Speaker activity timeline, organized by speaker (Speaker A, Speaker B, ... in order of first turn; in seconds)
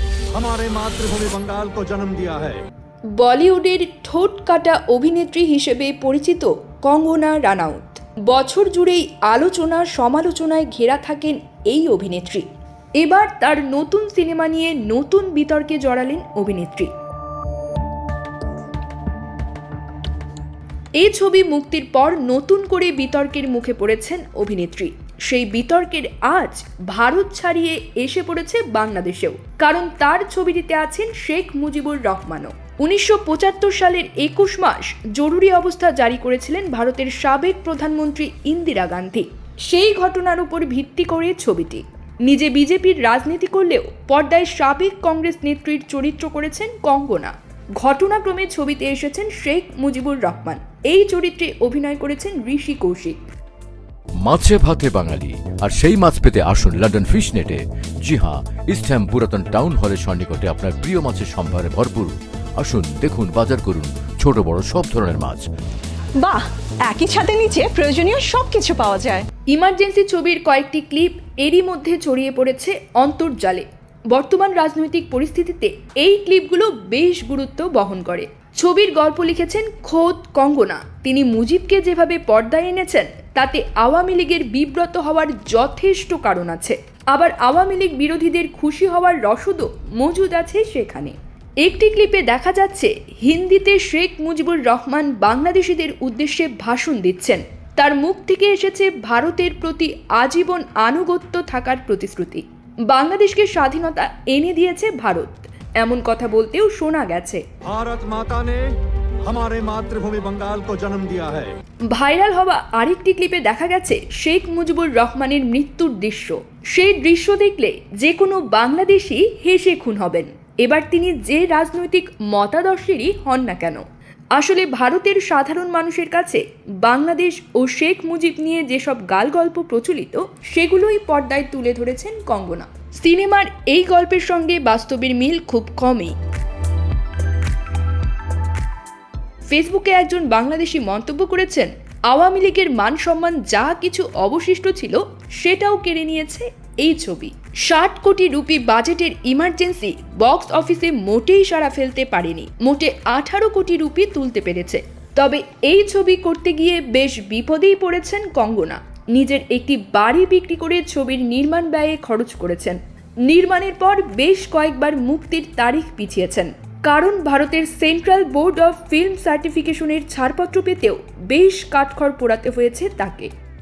Speaker A: 0.3-2.6, 107.6-108.6, 109.2-111.5
Speaker B: 3.2-12.5, 13.0-16.9, 21.0-53.2, 69.5-107.4, 111.9-123.8, 124.4-136.2, 139.5-173.3
Speaker C: 54.2-65.5
Speaker D: 66.2-69.3